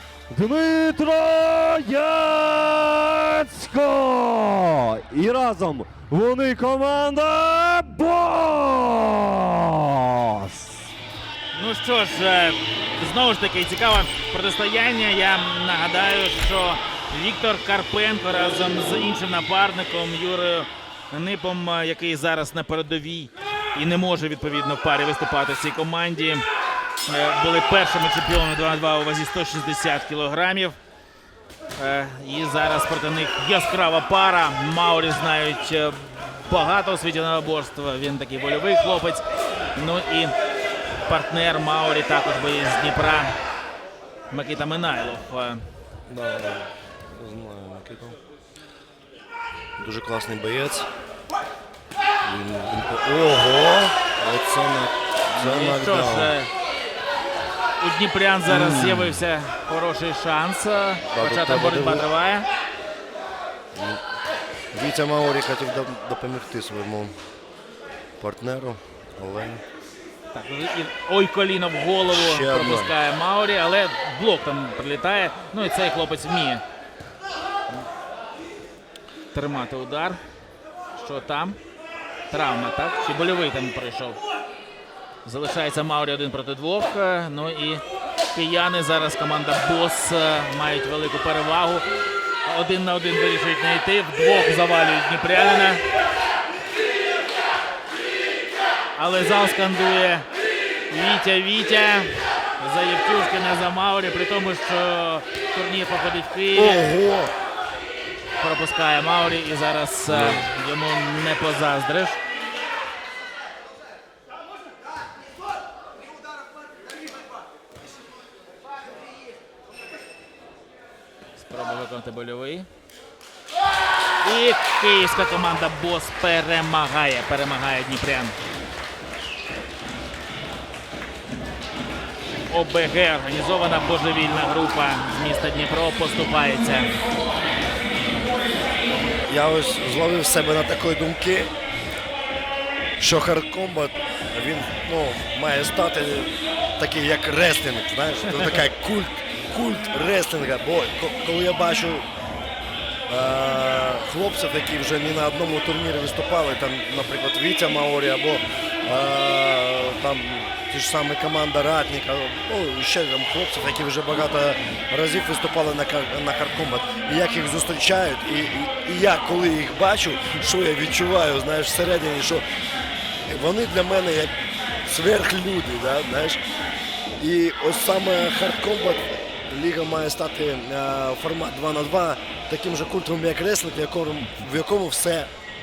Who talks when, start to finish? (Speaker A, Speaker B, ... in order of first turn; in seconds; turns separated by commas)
Speaker A: 0.3-10.8, Speaker B: 11.5-26.4, Speaker B: 27.1-30.8, Speaker B: 31.8-39.2, Speaker B: 39.8-40.4, Speaker B: 41.0-43.4, Speaker B: 44.3-45.7, Speaker C: 46.1-48.1, Speaker C: 49.8-50.9, Speaker C: 52.2-56.3, Speaker B: 55.4-56.5, Speaker B: 57.8-62.5, Speaker C: 58.5-59.0, Speaker C: 61.1-62.1, Speaker C: 64.7-67.2, Speaker C: 68.2-69.6, Speaker B: 70.3-76.6, Speaker C: 72.1-72.9, Speaker B: 79.3-80.2, Speaker B: 81.0-81.6, Speaker B: 82.3-84.2, Speaker B: 85.2-91.9, Speaker B: 92.5-95.8, Speaker B: 99.0-100.3, Speaker B: 100.9-106.9, Speaker C: 106.5-107.3, Speaker B: 108.4-112.2, Speaker C: 110.1-110.4, Speaker B: 121.4-122.7, Speaker B: 124.2-128.4, Speaker B: 132.5-136.9, Speaker C: 139.3-141.5, Speaker C: 143.0-152.1, Speaker C: 153.1-172.4, Speaker C: 173.3-174.3, Speaker C: 174.8-176.4, Speaker C: 177.2-185.3